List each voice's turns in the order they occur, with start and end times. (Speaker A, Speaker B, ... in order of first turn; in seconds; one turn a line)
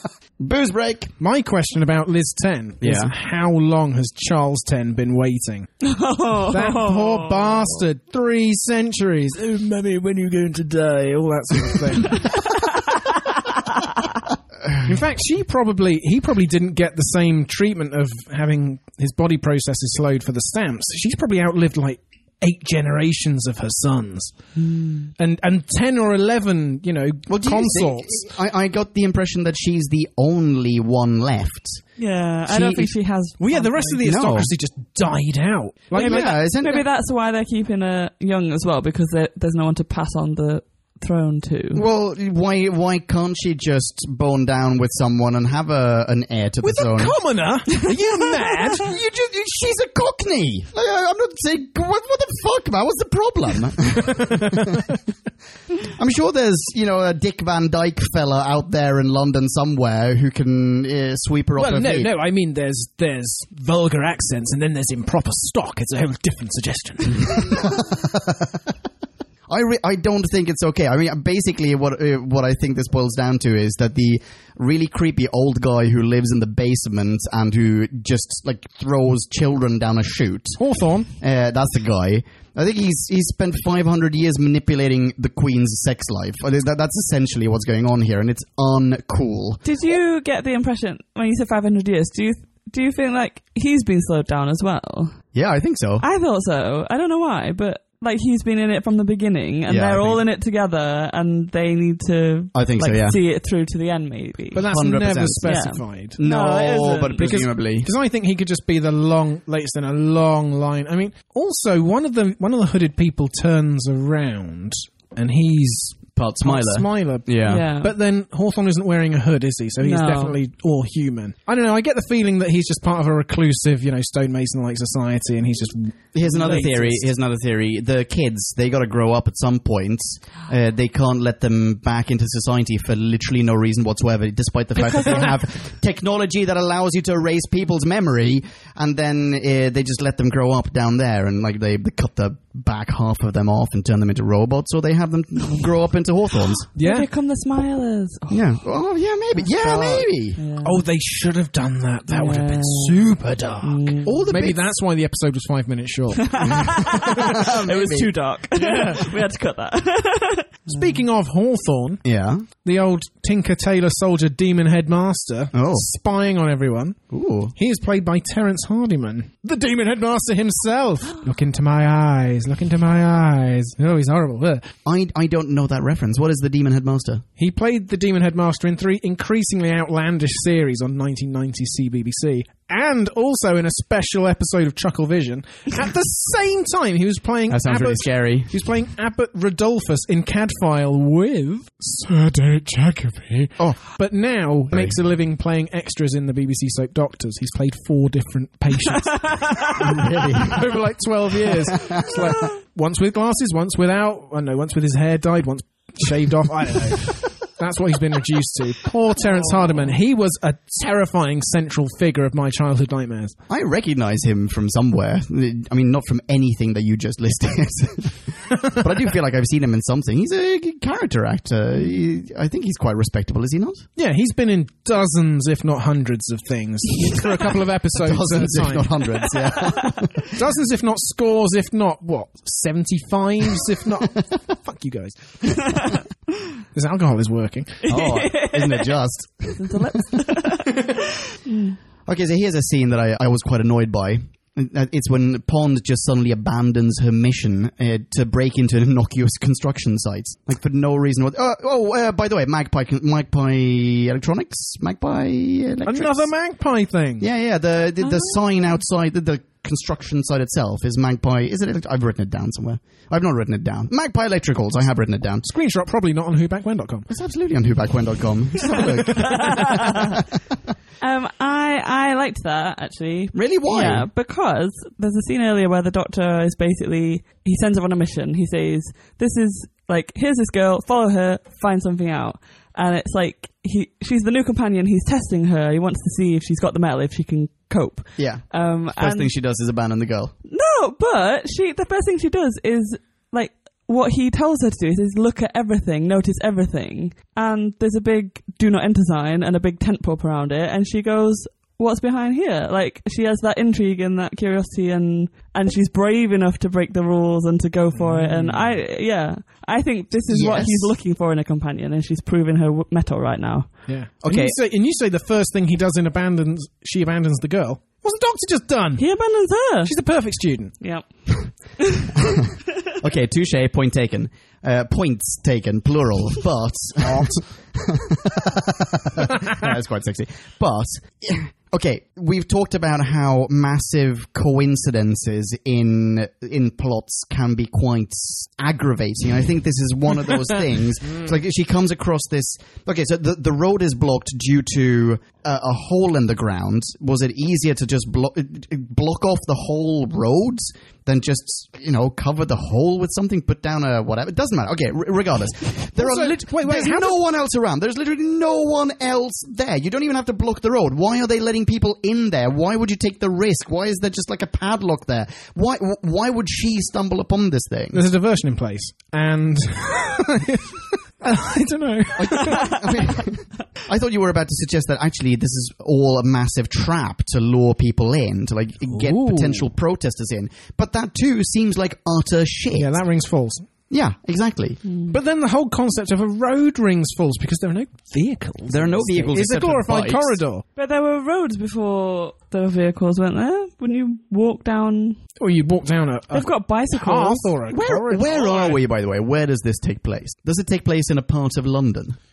Speaker A: 0.4-1.1
Speaker B: 1.2-5.7
Speaker A: 2.8-3.1
Speaker C: 5.8-7.5
Speaker B: 6.5-12.3
Speaker B: 14.8-24.4
Speaker C: 24.6-25.1
Speaker B: 25.2-28.2
Speaker A: 27.3-31.8
Speaker C: 32.0-34.0
Speaker A: 32.5-32.9
Speaker B: 33.4-36.3
Speaker A: 34.0-34.5
Speaker A: 35.9-36.9
Speaker C: 36.0-41.8
Speaker A: 41.7-47.2
Speaker B: 46.6-48.9
Speaker A: 48.7-54.8
Speaker B: 54.1-54.9
Speaker A: 55.8-62.1
Speaker B: 61.5-67.6
Speaker A: 67.3-68.4
Speaker A: 69.5-80.6
Speaker B: 80.6-81.1
Speaker A: 81.2-89.6
Speaker C: 89.6-95.2
Speaker A: 95.3-96.0
Speaker C: 96.0-104.7
Speaker A: 99.7-100.2
Speaker A: 102.5-103.2
Speaker B: 104.5-106.2
Speaker A: 104.6-105.6
Speaker C: 105.4-107.3
Speaker A: 106.2-107.9
Speaker B: 107.2-127.0
Speaker A: 116.2-117.6
Speaker C: 117.5-117.9
Speaker C: 119.8-120.4
Speaker A: 126.1-146.7
Speaker C: 126.4-126.7
Speaker C: 134.8-135.3
Speaker B: 146.8-147.1
Speaker C: 146.8-148.6
Speaker A: 148.3-150.4
Speaker C: 149.4-150.8
Speaker B: 150.6-157.0
Speaker C: 152.1-153.0
Speaker C: 153.6-154.2
Speaker A: 154.1-154.6
Speaker C: 156.2-161.0
Speaker A: 156.9-158.1
Speaker B: 158.6-159.0
Speaker B: 160.7-167.0
Speaker A: 162.0-162.4
Speaker A: 165.5-165.8
Speaker A: 167.1-167.5
Speaker B: 167.6-174.7
Speaker A: 174.8-177.2
Speaker B: 177.4-199.7
Speaker A: 187.5-188.5
Speaker A: 194.7-195.0
Speaker C: 199.2-199.7
Speaker A: 199.7-200.7
Speaker B: 200.4-213.3
Speaker A: 201.7-202.3
Speaker A: 213.5-223.9
Speaker B: 224.0-228.9
Speaker A: 227.9-230.3
Speaker C: 229.7-229.9
Speaker B: 230.3-235.6
Speaker B: 236.7-237.8
Speaker C: 237.8-238.9
Speaker A: 237.9-240.9
Speaker C: 239.5-241.8
Speaker A: 242.1-256.3
Speaker B: 255.8-257.3
Speaker A: 257.2-265.5
Speaker B: 265.4-267.1
Speaker A: 267.1-270.2
Speaker C: 269.2-270.2
Speaker C: 271.0-289.3
Speaker A: 273.3-274.1
Speaker A: 288.2-290.3
Speaker C: 290.4-313.8
Speaker B: 307.9-308.8
Speaker A: 310.3-310.9
Speaker B: 313.9-319.1
Speaker A: 314.2-314.6
Speaker C: 319.0-319.9
Speaker B: 319.8-320.7
Speaker C: 320.8-322.3
Speaker A: 323.0-368.0
Speaker B: 327.0-327.4
Speaker B: 355.9-357.2
Speaker B: 367.9-372.7
Speaker A: 372.1-383.0
Speaker B: 378.9-379.7
Speaker B: 382.7-383.6
Speaker A: 383.9-384.8
Speaker C: 384.8-385.1
Speaker B: 385.1-390.6
Speaker A: 388.7-390.4
Speaker C: 390.8-395.2
Speaker B: 395.4-398.8
Speaker C: 396.3-397.5
Speaker A: 397.7-402.2